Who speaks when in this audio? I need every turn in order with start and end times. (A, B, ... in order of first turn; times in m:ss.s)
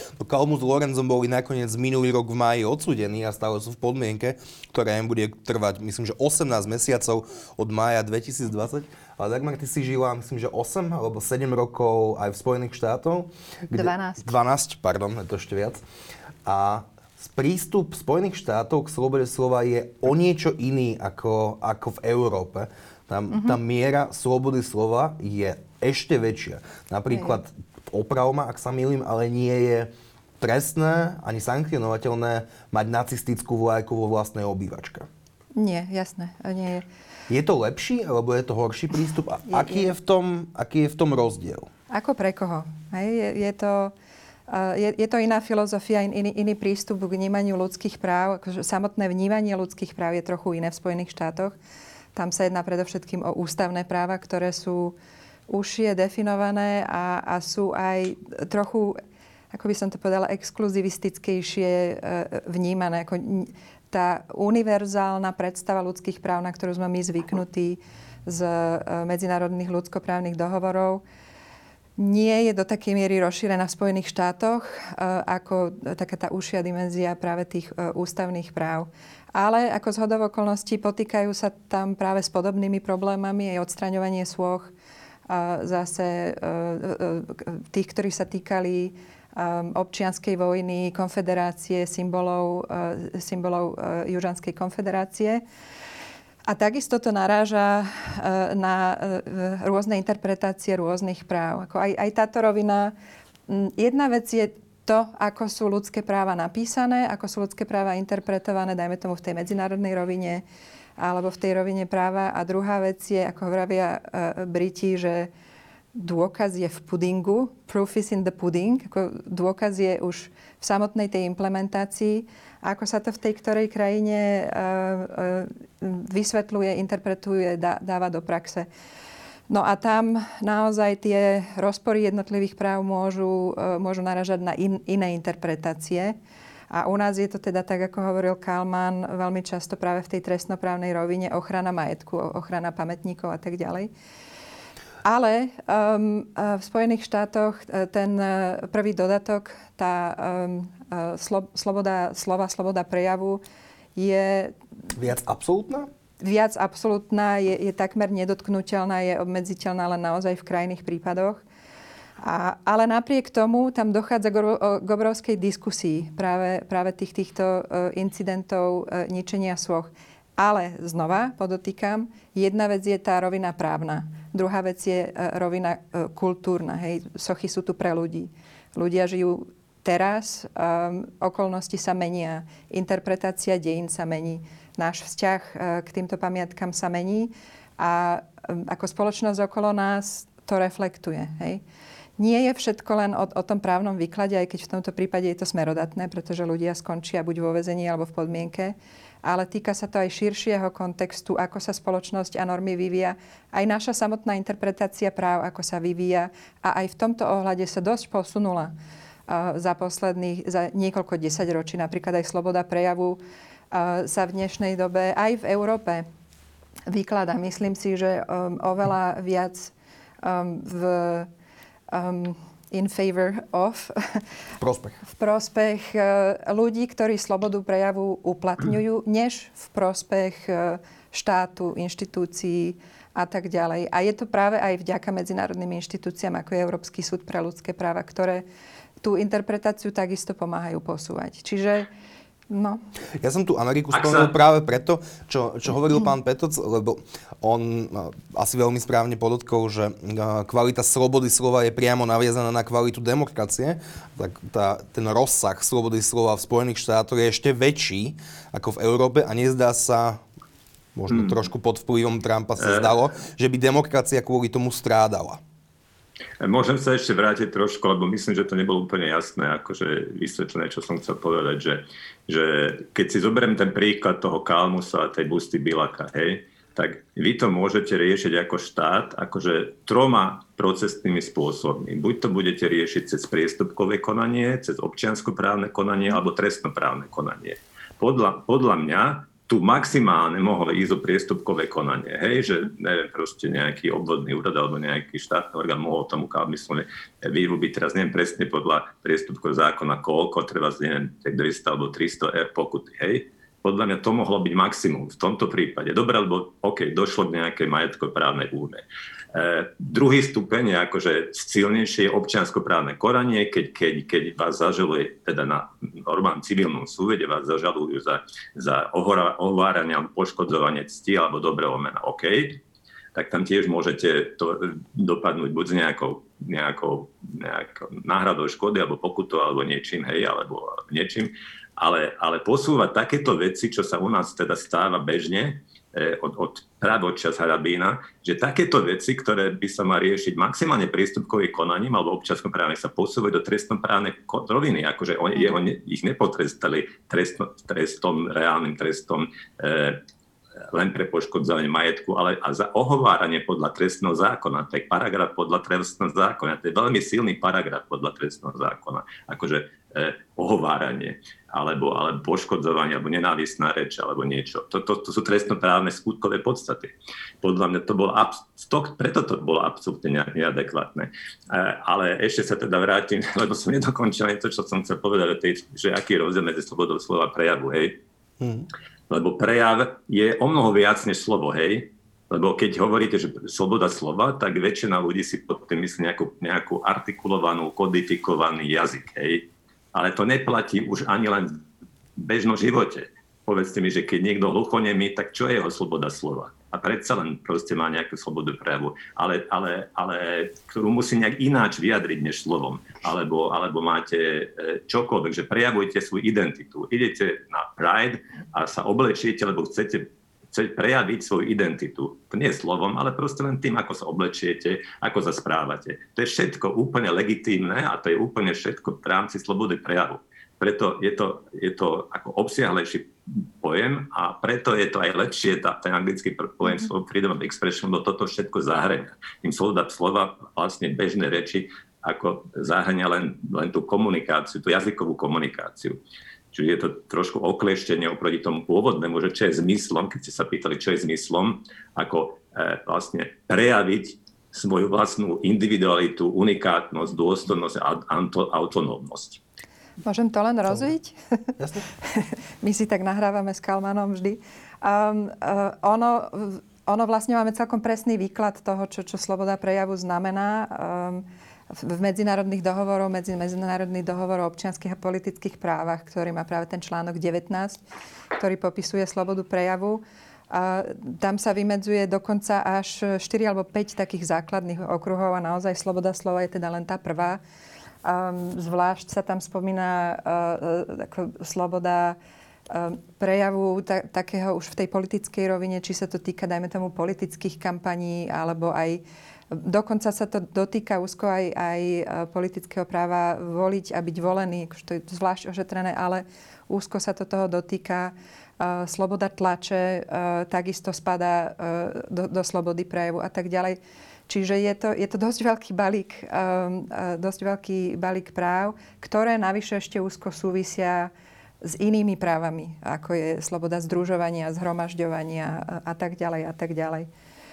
0:00.2-0:15.8 A
0:13.7-0:14.3 B
0:16.4-0:35.0 A
0:23.3-0:23.6 B
0:27.1-0:27.4 B
0:35.6-0:36.8 B
0:37.3-0:41.7 A
0:39.5-0:39.8 B
0:41.9-0:43.9 B
0:44.5-0:51.5 B
0:52.1-0:54.9 B
0:55.5-0:59.0 B
0:59.5-1:11.0 B
1:12.0-1:24.7 B
1:25.3-1:35.4 B
1:36.5-1:42.9 B
1:43.5-1:50.4 B
1:51.0-1:55.3 B
1:55.9-2:08.7 B
2:09.5-2:16.1 B
2:16.7-2:23.9 B
2:25.0-2:33.4 B
2:34.0-2:34.5 B
2:34.9-2:35.9 A
2:36.2-2:41.4 B
2:42.2-3:11.6 B
3:12.2-3:28.7 B
3:29.3-3:33.2 B
3:33.7-3:36.0 B
3:36.9-3:41.3 B
3:41.9-3:44.2 B
3:44.6-3:45.0 A
3:45.1-3:58.4 B
3:59.0-4:01.9 B
4:02.5-4:02.8 B
4:03.2-4:20.2 A
4:03.9-4:04.3 C
4:20.9-4:25.4 A
4:21.1-4:21.4 C
4:22.6-4:22.9 C
4:26.4-5:22.6 C
5:23.1-5:50.0 C
5:50.7-6:18.0 C
6:18.4-6:18.7 A
6:19.1-6:31.6 C
6:32.2-7:16.0 C
7:16.5-7:29.4 C
7:30.0-7:31.2 B
7:31.6-7:31.8 A
7:32.0-7:47.8 B
7:48.4-7:57.4 B
7:58.0-8:02.2 B
8:02.7-8:31.1 B
8:31.6-8:37.1 B